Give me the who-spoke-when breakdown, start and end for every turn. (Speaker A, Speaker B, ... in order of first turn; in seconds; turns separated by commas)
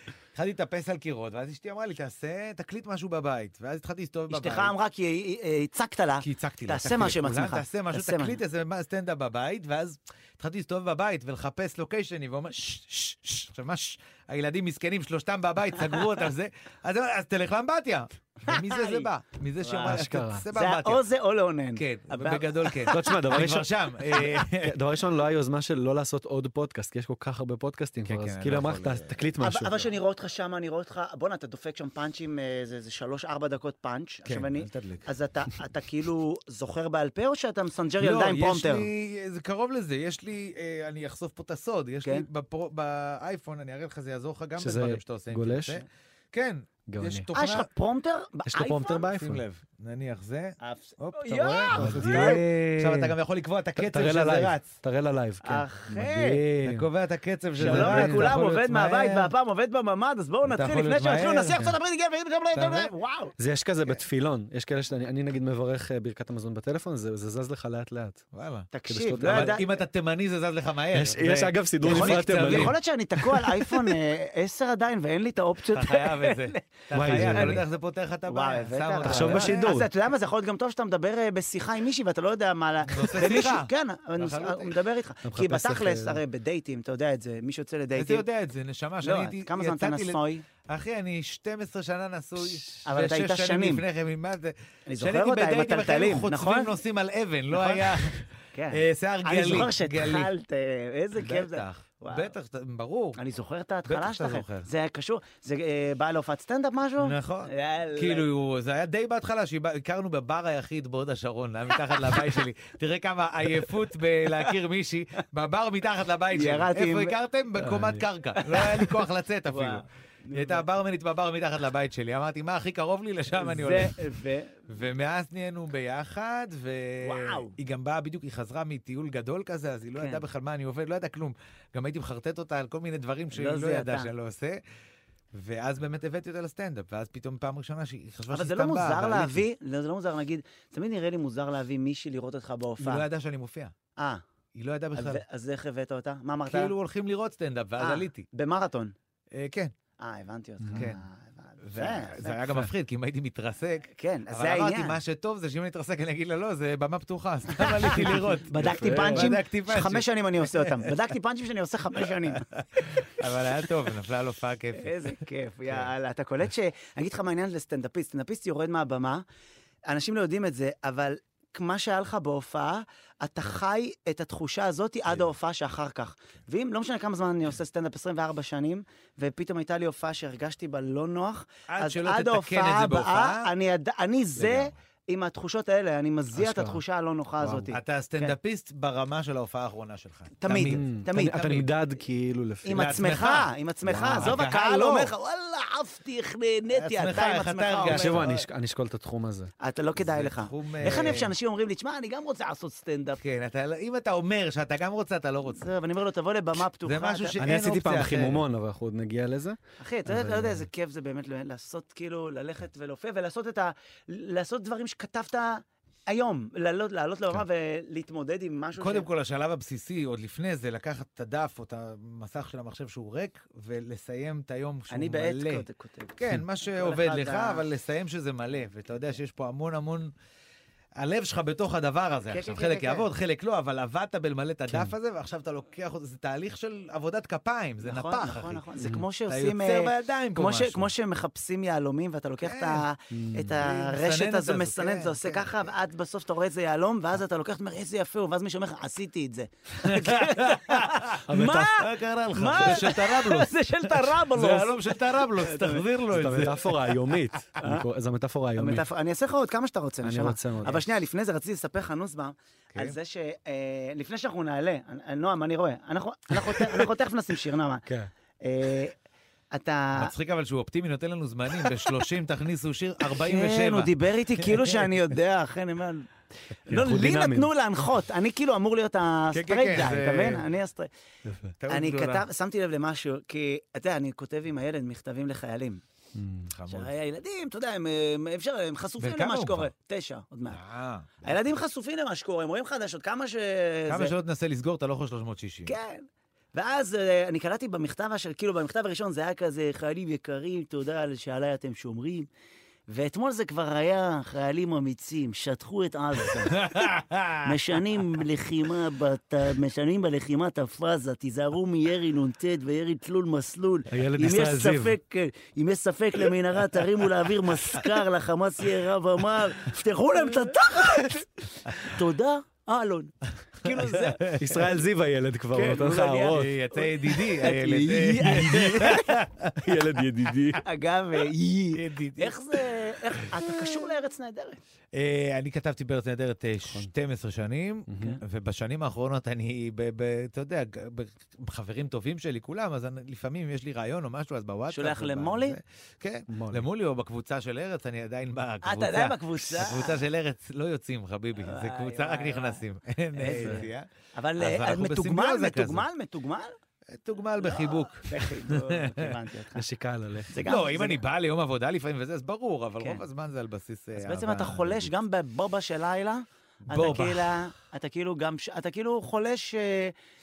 Speaker A: 0.3-4.7, Speaker B: 4.3-8.4, Speaker A: 6.2-21.0, Speaker B: 18.4-19.1, Speaker B: 19.6-23.0, Speaker C: 19.9-20.4, Speaker A: 21.8-24.8, Speaker C: 22.9-29.8, Speaker A: 28.1-29.2, Speaker B: 29.4-38.9, Speaker A: 34.3-35.1, Speaker A: 38.0-47.7, Speaker C: 44.6-45.8, Speaker C: 46.9-47.3, Speaker B: 47.3-49.1, Speaker C: 48.5-49.4, Speaker A: 49.1-54.7, Speaker B: 50.6-52.4, Speaker C: 51.7-53.1, Speaker C: 53.8-56.9, Speaker B: 55.4-56.4, Speaker A: 56.6-59.3, Speaker C: 57.6-58.3, Speaker B: 57.6-63.3, Speaker A: 60.5-61.7, Speaker A: 62.5-62.9, Speaker C: 63.4-68.2, Speaker A: 68.3-72.8, Speaker B: 68.7-69.7, Speaker C: 68.9-69.6, Speaker C: 70.9-73.9, Speaker B: 71.8-77.6, Speaker A: 75.7-79.8, Speaker C: 76.9-77.6, Speaker B: 78.3-88.2, Speaker C: 79.0-79.9, Speaker A: 82.9-84.8, Speaker C: 85.2-86.2, Speaker A: 88.0-100.3, Speaker B: 89.0-90.5, Speaker B: 92.8-93.8, Speaker B: 94.9-96.7, Speaker B: 97.5-98.0, Speaker B: 98.5-102.3, Speaker A: 101.2-103.2, Speaker B: 103.2-108.3, Speaker A: 103.9-104.7, Speaker A: 107.0-123.9, Speaker B: 112.0-112.2, Speaker B: 116.3-117.2, Speaker C: 117.6-118.0, Speaker B: 118.4-120.7, Speaker B: 123.3-124.6, Speaker A: 124.7-134.6, Speaker B: 127.0-127.5, Speaker B: 129.9-130.2, Speaker B: 133.3-134.1, Speaker A: 135.3-139.4, Speaker B: 138.3-143.1, Speaker A: 142.8-143.7, Speaker B: 144.0-144.2, Speaker A: 144.6-145.2, Speaker B: 144.9-146.7, Speaker A: 146.5-148.3, Speaker B: 147.8-148.9, Speaker A: 149.3-149.7, Speaker B: 150.0-152.4, Speaker C: 150.6-150.9, Speaker A: 150.8-151.0, Speaker A: 151.6-160.9, Speaker B: 153.9-155.0, Speaker B: 157.6-163.2, Speaker C: 158.6-159.3, Speaker A: 163.0-165.1, Speaker B: 164.8-169.2, Speaker B: 169.9-188.3, Speaker A: 181.7-183.5, Speaker A: 184.4-184.7, Speaker C: 186.3-186.8, Speaker C: 187.4-187.7, Speaker A: 187.7-191.7, Speaker B: 190.4-191.6, Speaker C: 190.5-193.1, Speaker B: 192.6-198.4, Speaker A: 192.8-195.1, Speaker C: 193.9-194.4, Speaker A: 196.7-198.3, Speaker C: 197.9-199.5, Speaker B: 199.6-203.2, Speaker A: 200.0-201.3, Speaker A: 203.2-205.7, Speaker B: 205.5-207.4, Speaker A: 206.8-208.4, Speaker C: 207.4-210.7, Speaker B: 209.8-219.1, Speaker A: 218.8-225.7, Speaker B: 224.9-226.2, Speaker A: 226.2-230.1, Speaker B: 226.8-227.6, Speaker A: 231.0-238.6, Speaker B: 232.3-233.1, Speaker C: 234.7-234.9, Speaker B: 237.8-255.8, Speaker A: 239.3-240.9, Speaker A: 242.4-242.8, Speaker C: 243.1-243.6, Speaker A: 243.6-245.7, Speaker A: 249.8-257.0, Speaker C: 251.3-251.8, Speaker C: 256.1-258.9, Speaker B: 257.6-257.9, Speaker B: 258.6-267.9, Speaker C: 260.0-260.8, Speaker C: 267.9-268.1, Speaker B: 268.4-268.9, Speaker B: 269.5-270.1, Speaker A: 270.0-274.6, Speaker B: 273.2-276.1, Speaker B: 276.7-280.9, Speaker C: 276.7-277.5, Speaker A: 279.3-280.4, Speaker C: 281.2-281.5, Speaker A: 281.6-282.2, Speaker B: 281.7-285.8, Speaker C: 286.1-286.5, Speaker A: 286.5-286.9, Speaker B: 286.7-290.6, Speaker A: 289.0-289.7, Speaker A: 290.5-291.2, Speaker B: 291.2-294.1, Speaker A: 293.9-295.7, Speaker B: 295.7-302.3, Speaker B: 302.9-306.7, Speaker A: 306.5-307.5, Speaker B: 307.4-324.4, Speaker C: 313.9-315.0, Speaker A: 323.6-324.5, Speaker C: 324.4-326.6, Speaker B: 325.5-329.1, Speaker A: 326.3-329.6, Speaker C: 328.2-329.0, Speaker C: 329.6-330.6, Speaker B: 330.6-334.6, Speaker A: 331.8-332.7, Speaker A: 334.9-353.9, Speaker C: 336.6-336.9, Speaker C: 337.9-338.2, Speaker B: 344.7-345.6, Speaker C: 346.3-346.6, Speaker B: 348.6-350.0, Speaker B: 351.4-352.6, Speaker B: 353.2-356.5, Speaker C: 353.4-353.6, Speaker A: 354.4-355.9, Speaker A: 356.9-359.1, Speaker B: 357.4-359.6, Speaker C: 359.6-360.3, Speaker B: 360.3-361.0, Speaker A: 360.4-364.9, Speaker B: 364.0-369.9, Speaker A: 366.7-367.5